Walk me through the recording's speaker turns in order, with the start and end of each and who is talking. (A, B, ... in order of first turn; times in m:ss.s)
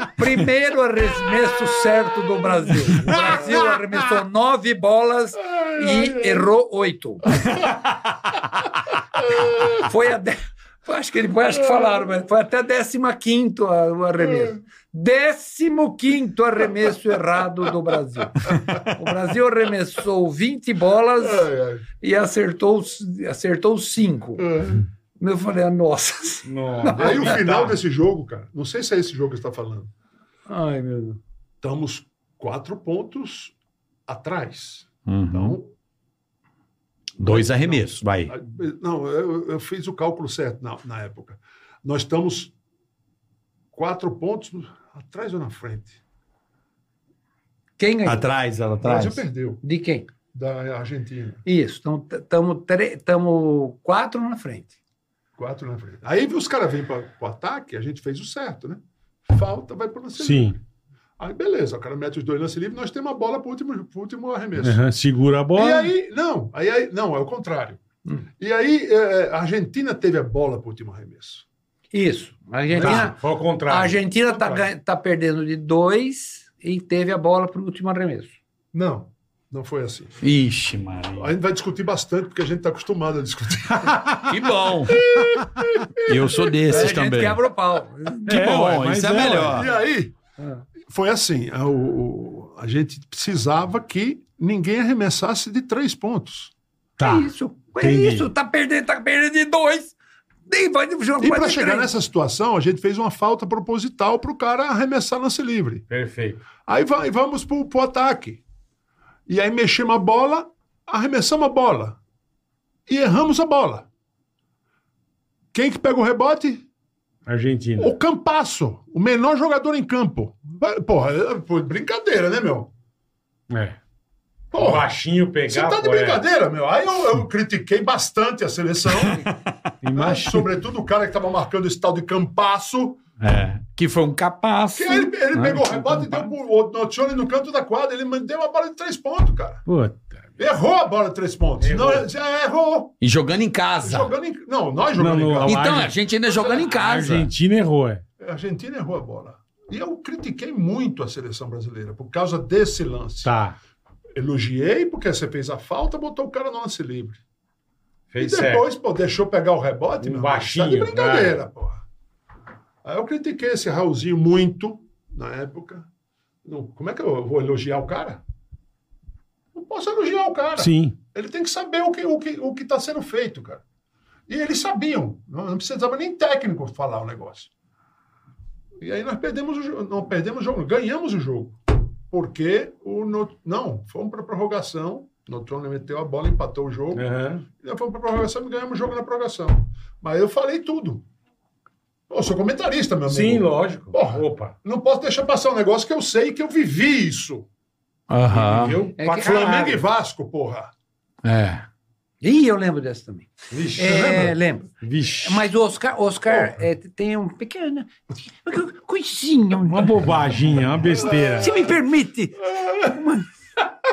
0:00.2-0:07.3 A
0:02.9-0:03.7 B
0:05.5-0:06.4 B
0:09.2-0:09.8 B
0:09.8-0:21.5 A
0:18.5-0:18.8 B
0:21.2-0:21.8 B
0:22.0-0:24.5 A
0:24.4-0:24.8 B
0:25.2-0:27.4 A
0:26.4-0:27.8 C
0:27.0-0:29.9 B
0:30.5-0:31.2 A
0:31.6-0:33.5 B
0:34.1-0:35.7 B
0:35.0-0:35.6 D
0:37.2-0:38.3 D
0:37.2-0:42.5 B
0:43.7-0:46.0 B
0:47.8-0:48.3 A
0:48.0-0:49.2 D
0:48.8-0:49.6 B
0:49.6-0:50.1 A
0:50.3-0:51.4 B
0:51.4-0:54.7 A
0:55.4-1:00.6 B
1:00.2-1:00.6 C
1:01.2-1:04.8 B
1:04.6-1:05.9 C
1:05.5-1:07.8 B
1:08.4-1:11.4 B
1:11.9-1:18.4 A
1:12.7-1:13.1 B
1:12.7-1:14.0 C
1:14.3-1:14.6 B
1:18.7-1:20.2 B
1:20.2-1:21.3 D
1:21.2-1:24.2 B
1:24.2-1:25.0 D
1:24.8-1:26.9 B
1:26.0-1:27.4 D
1:26.6-1:28.4 A
1:28.3-1:29.7 C
1:28.3-1:29.7 D
1:29.2-1:30.1 B
1:30.4-1:30.6 A
1:30.9-1:36.5 B
1:37.0-1:38.3 C
1:37.0-1:39.9 A
1:40.5-1:41.9 A
1:41.2-1:45.8 B
1:45.9-1:46.4 C
1:46.6-1:48.4 B
1:49.3-1:52.0 B
1:52.9-1:53.9 B
1:55.5-1:56.6 B
1:57.2-1:57.9 C
1:57.8-2:02.7 B
2:03.5-2:03.8 C
2:04.5-2:04.9 B
2:04.5-2:06.2 C
2:05.5-2:09.3 B
2:09.8-2:10.5 C
2:09.9-2:13.0 B
2:13.2-2:15.4 D
2:14.8-2:19.6 B
2:19.6-2:20.2 C
2:20.4-2:22.9 B
2:21.6-2:22.1 C
2:23.0-2:24.1 D
2:23.8-2:26.7 B
2:25.0-2:26.0 C
2:25.4-2:27.3 D
2:26.6-2:28.0 C
2:28.2-2:33.3 B
2:33.2-2:33.6 C
2:34.1-2:37.2 B
2:38.1-2:38.6 C
2:38.2-2:41.8 B
2:40.0-2:41.4 C
2:42.8-2:45.9 B
2:46.4-2:48.2 B
2:49.5-2:53.6 B
2:50.6-2:51.0 C
2:54.3-2:57.5 B
2:58.8-3:11.1 B
3:06.9-3:07.4 C
3:12.1-3:17.5 B
3:13.1-3:14.5 C
3:18.1-3:18.8 D
3:18.3-3:19.8 C
3:19.0-3:19.6 A
3:19.1-3:20.7 B
3:21.2-3:21.6 D
3:22.2-3:30.0 A
3:23.5-3:25.5 C
3:29.7-3:31.7 C
3:31.2-3:33.3 A